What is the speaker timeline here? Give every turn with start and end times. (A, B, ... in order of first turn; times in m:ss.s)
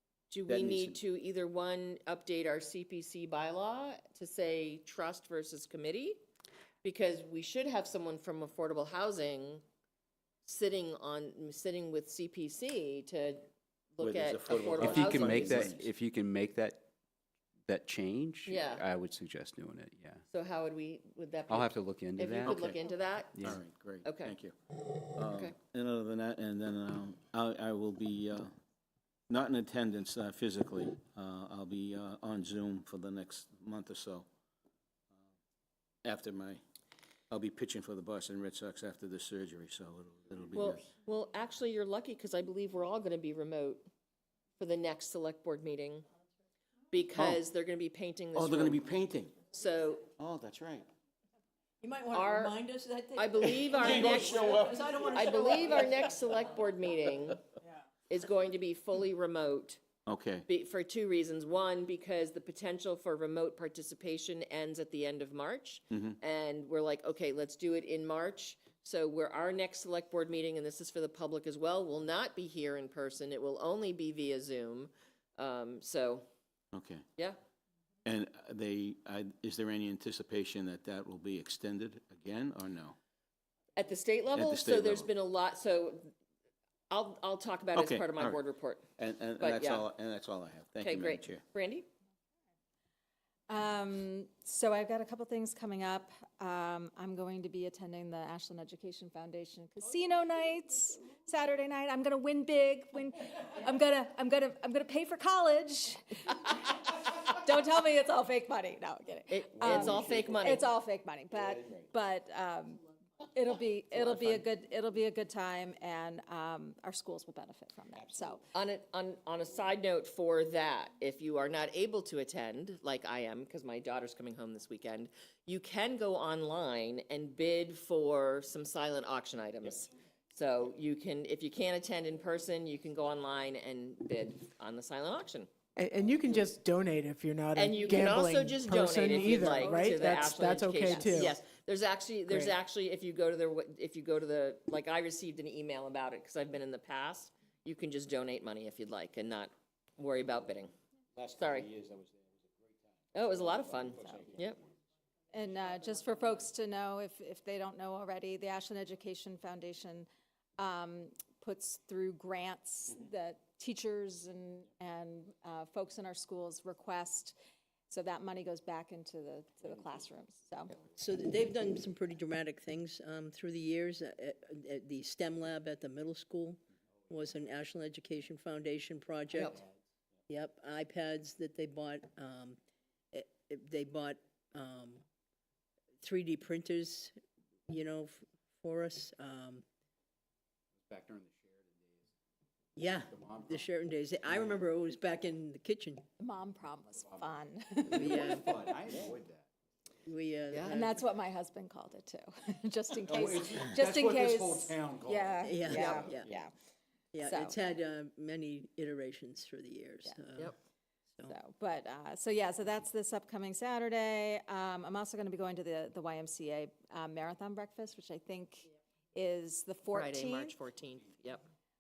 0:00.3-0:06.2 A
0:00.5-0:01.0 B
0:06.8-0:09.6 A
0:10.4-0:15.7 A
0:14.0-0:15.9 B
0:14.8-0:16.9 C
0:17.7-0:20.2 C
0:18.5-0:18.9 A
0:20.3-0:23.4 A
0:21.5-0:22.8 C
0:23.4-0:23.6 C
0:23.4-0:24.6 B
0:24.0-0:24.4 A
0:25.1-0:28.5 B
0:29.3-0:34.3 B
0:36.0-0:36.6 B
0:37.3-0:40.8 B
0:40.6-0:43.9 A
0:44.6-0:46.1 A
0:46.9-0:50.1 A
0:48.3-0:49.4 B
0:50.2-0:50.9 B
0:51.8-0:56.2 D
0:52.1-0:52.6 A
0:53.2-0:57.4 A
0:53.4-0:54.9 B
0:58.1-0:59.8 A
1:00.1-1:00.5 B
1:00.5-1:16.2 A
1:05.9-1:06.2 B
1:16.7-1:17.0 B
1:18.0-1:23.0 B
1:23.8-1:26.1 A
1:24.4-1:25.1 B
1:26.9-1:28.8 A
1:27.8-1:28.4 B
1:29.0-1:31.4 B
1:29.4-1:29.9 A
1:30.8-1:31.9 A
1:33.5-1:58.4 E
1:49.3-1:50.7 A
1:49.7-1:50.5 B
1:58.5-2:15.5 A
2:15.8-2:21.4 F
2:16.2-2:16.5 A
2:17.6-2:30.7 A
2:19.8-2:21.3 E
2:22.3-2:22.6 F
2:31.2-2:32.8 B
2:31.4-2:31.7 A
2:33.1-2:34.6 A
2:33.4-2:34.6 B
2:35.3-2:47.4 E
2:47.9-2:50.8 E
2:51.0-2:59.6 D
2:59.3-2:59.6 A
3:00.3-3:02.6 D
3:03.1-3:05.0 D
3:06.0-3:07.2 D
3:07.7-3:09.6 D
3:10.8-3:12.1 C
3:12.8-3:16.1 D
3:13.1-3:13.6 C
3:16.2-3:18.5 E
3:17.9-3:18.6 D
3:18.0-3:19.5 C
3:20.1-3:21.0 D
3:20.5-3:20.8 A
3:20.7-3:26.5 E
3:23.9-3:24.7 B
3:25.4-3:26.3 D
3:27.1-3:30.6 D
3:27.2-3:27.6 E
3:31.3-3:40.6 E
3:39.9-3:41.5 A